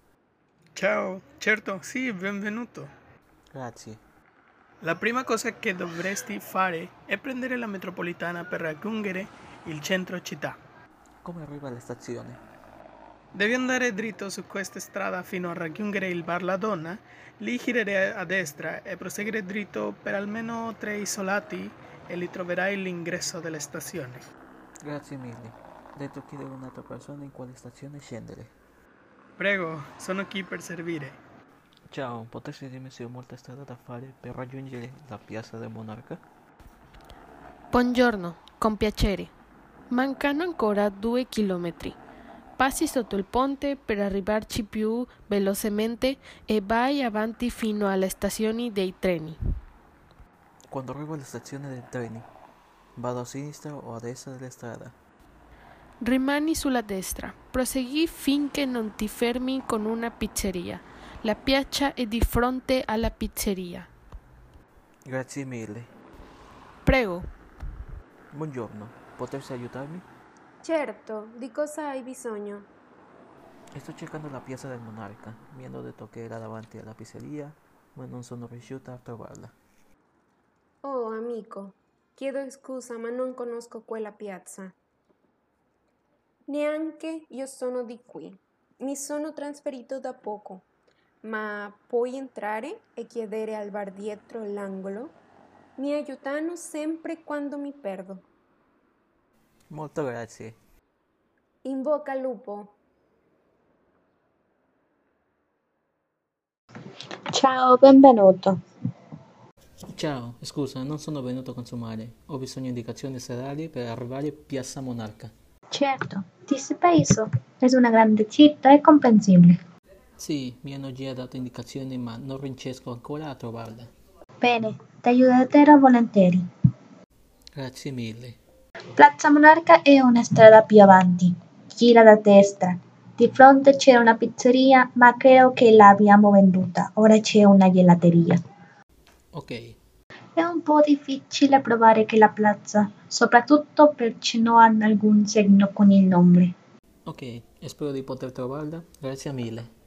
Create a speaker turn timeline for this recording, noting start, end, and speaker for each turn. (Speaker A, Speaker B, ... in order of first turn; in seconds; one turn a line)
Speaker A: 0.7-2.9
Speaker B: 3.5-4.0
Speaker A: 4.8-10.6
Speaker B: 11.2-12.4
Speaker A: 13.3-24.2
Speaker B: 24.8-28.5
Speaker A: 29.4-31.2
Speaker B: 31.9-36.2
Speaker C: 37.7-39.3
Speaker C: 39.9-42.0
Speaker C: 42.6-49.4
Speaker B: 50.7-52.3
Speaker B: 53.0-54.9
Speaker C: 56.0-63.9
Speaker B: 65.0-65.9
Speaker C: 66.8-67.3
Speaker B: 68.3-70.0
Speaker D: 70.6-72.7
Speaker B: 73.7-79.5
Speaker D: 80.8-84.7
Speaker D: 86.5-90.6
Speaker D: 91.2-95.1
Speaker D: 95.8-98.2
Speaker B: 99.7-100.5
Speaker D: 101.7-102.7
Speaker E: 107.3-108.6
Speaker B: 109.9-115.3
Speaker E: 115.7-119.6
Speaker B: 120.2-123.9
Speaker E: 124.4-126.5
Speaker B: 127.5-128.4
Speaker E: 129.0-138.4
Speaker B: 139.3-139.7
Speaker E: 140.4-146.5
Speaker B: 147.1-149.7